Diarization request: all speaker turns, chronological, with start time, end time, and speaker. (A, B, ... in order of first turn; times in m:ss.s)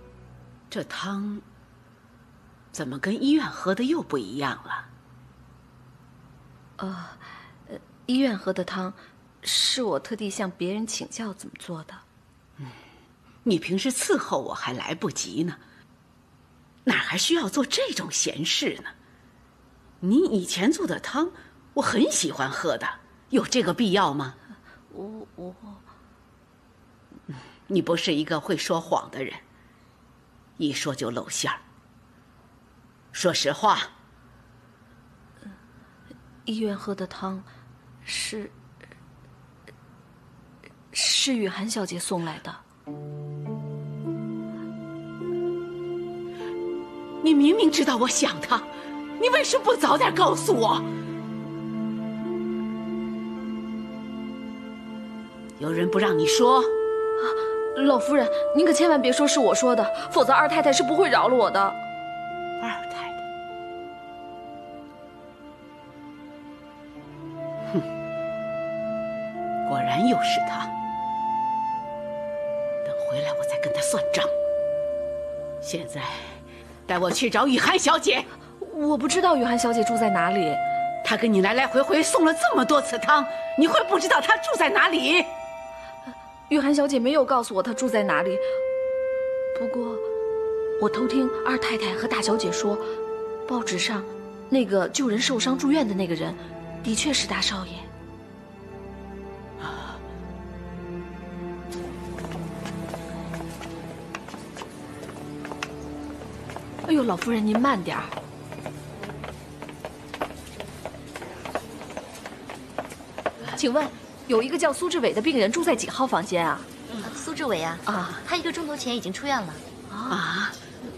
0:00.7-0:01.4 A
0:02.7-0:04.9 A
0:06.8-0:12.0 B
0:13.4-0:15.6 A
0:16.9-0:18.9 A
0:20.0-0:24.4 A
0:24.9-0:25.8 B
0:27.7-0:29.4 A
0:30.6-0:31.6 A
0:33.1-0:33.9 A
0:36.5-0:37.5 B
0:38.0-0:38.5 B
0:40.9-0:42.6 B
0:47.2-0:50.9 A
0:55.6-0:56.7 A
0:57.2-1:01.8 B
1:02.6-1:03.2 A
1:09.7-1:10.7 A
1:12.8-1:14.3 A
1:15.6-1:18.3 A
1:18.6-1:20.6 B
1:21.0-1:25.3 A
1:26.5-1:28.5 B
1:29.5-1:30.0 B
1:30.8-1:32.9 B
1:33.5-1:37.9 B
1:39.6-1:40.0 A
1:46.9-1:48.1 B
1:53.5-1:56.7 B
1:57.2-1:59.6 C
1:57.9-1:58.2 B
1:59.9-2:00.2 B
2:00.1-2:00.6 A